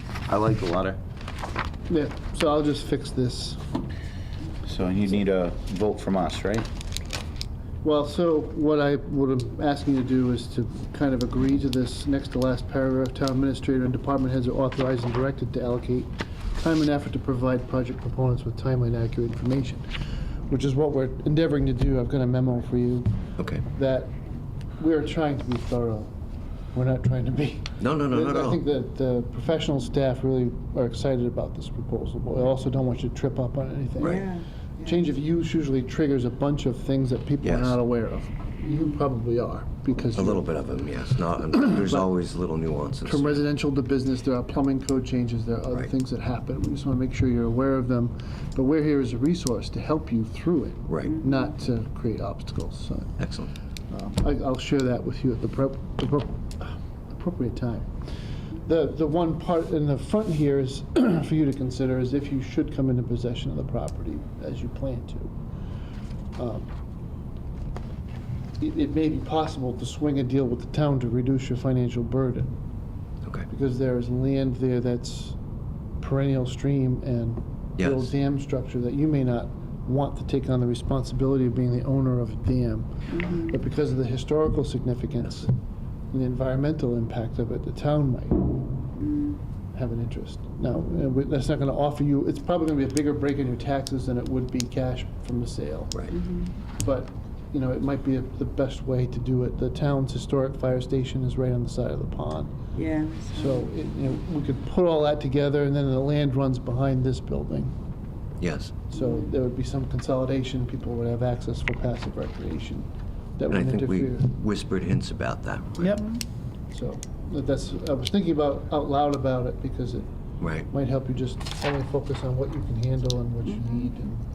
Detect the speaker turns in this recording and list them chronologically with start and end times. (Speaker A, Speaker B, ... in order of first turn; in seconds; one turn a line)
Speaker A: 0.3-1.0
Speaker B: 1.9-3.6
Speaker A: 4.6-6.7
Speaker B: 7.8-19.9
Speaker B: 20.5-23.1
Speaker C: 23.4-23.6
Speaker B: 23.7-24.1
Speaker B: 24.8-26.1
Speaker B: 26.7-34.3
Speaker C: 27.8-28.6
Speaker C: 34.0-34.3
Speaker D: 34.0-35.0
Speaker B: 34.8-40.6
Speaker C: 37.4-37.8
Speaker C: 40.1-43.4
Speaker B: 41.7-42.1
Speaker B: 43.0-53.1
Speaker C: 50.9-51.2
Speaker C: 53.2-53.5
Speaker B: 53.9-57.9
Speaker B: 58.6-65.3
Speaker B: 66.4-66.7
Speaker B: 68.6-72.5
Speaker B: 73.5-75.4
Speaker B: 76.0-85.5
Speaker C: 77.8-78.1
Speaker D: 83.1-83.5
Speaker B: 86.1-88.7
Speaker D: 89.0-89.4
Speaker B: 89.7-96.0
Speaker D: 96.2-96.5
Speaker B: 96.8-102.5
Speaker D: 102.8-103.6
Speaker B: 103.3-107.7
Speaker C: 108.4-108.8
Speaker B: 108.9-114.3
Speaker C: 113.5-116.0
Speaker B: 116.7-120.1
Speaker C: 120.4-120.7
Speaker B: 120.7-124.2